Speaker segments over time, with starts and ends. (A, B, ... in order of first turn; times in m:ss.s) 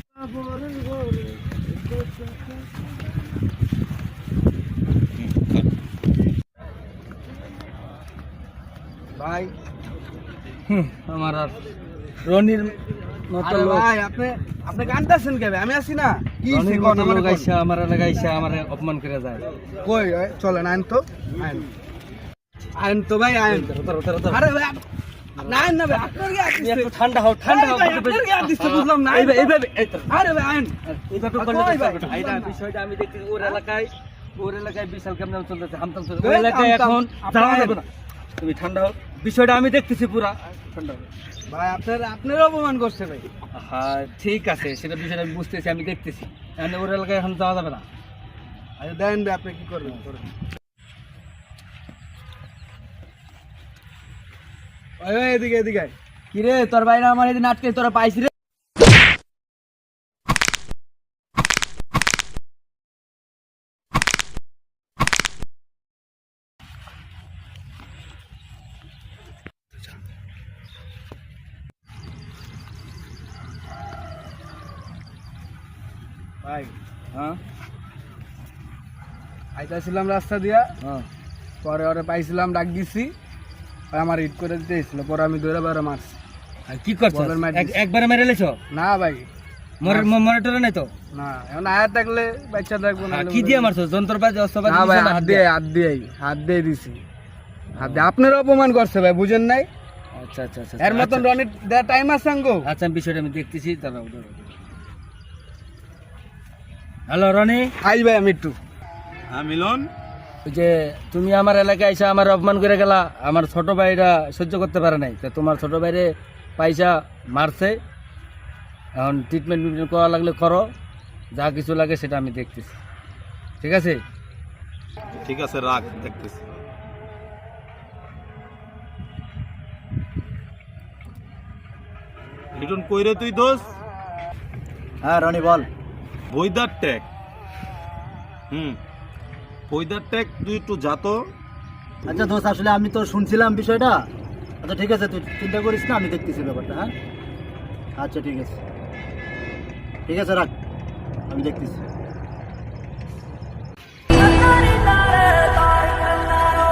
0:00.4-0:01.0 A
0:09.2-0:09.5 B
0:10.7-0:11.5 A
0:12.2-0:12.8 A
0:13.3-0:13.9 A
0:13.4-0:17.5 B
0:16.5-0:19.4 A
0:19.8-0:21.7 B
0:22.8-0:23.7 B
0:23.5-0:24.4 A
0:24.3-0:24.8 B
0:25.4-0:26.9 B
0:25.4-0:30.1 A
0:27.4-0:29.6 B
0:30.1-0:30.8 B
0:30.8-0:37.8 A
0:31.3-0:32.6 B
0:36.2-0:37.8 B
0:38.4-0:41.1 A
0:41.5-0:43.3 B
0:43.5-0:47.8 A
0:48.8-0:50.2 B
0:55.0-0:55.9 B
0:56.3-0:58.3 A
1:16.4-1:16.7 B
1:19.5-1:20.7 B
1:21.6-1:23.1 B
1:23.9-1:26.1 B
1:26.7-1:28.6 A
1:27.1-1:27.8 B
1:28.7-1:29.2 B
1:29.8-1:30.9 A
1:29.8-1:30.1 B
1:31.1-1:33.7 B
1:33.0-1:35.4 A
1:34.6-1:37.0 B
1:37.7-1:38.0 A
1:37.8-1:39.7 B
1:40.1-1:41.3 A
1:40.8-1:42.7 B
1:42.6-1:44.5 A
1:47.1-1:47.7 A
1:47.8-1:48.6 B
1:49.3-1:49.9 C
1:50.4-1:57.8 A
1:59.0-2:00.7 A
2:01.3-2:02.8 A
2:03.6-2:04.0 A
2:05.2-2:06.4 C
2:12.6-2:13.7 C
2:15.0-2:15.7 D
2:16.3-2:17.1 C
2:18.5-2:18.8 C
2:19.7-2:21.2 C
2:22.1-2:24.0 D
2:24.6-2:26.9 D
2:28.0-2:28.6 D
2:30.1-2:30.5 D
2:31.3-2:31.8 D
2:34.7-2:35.2 A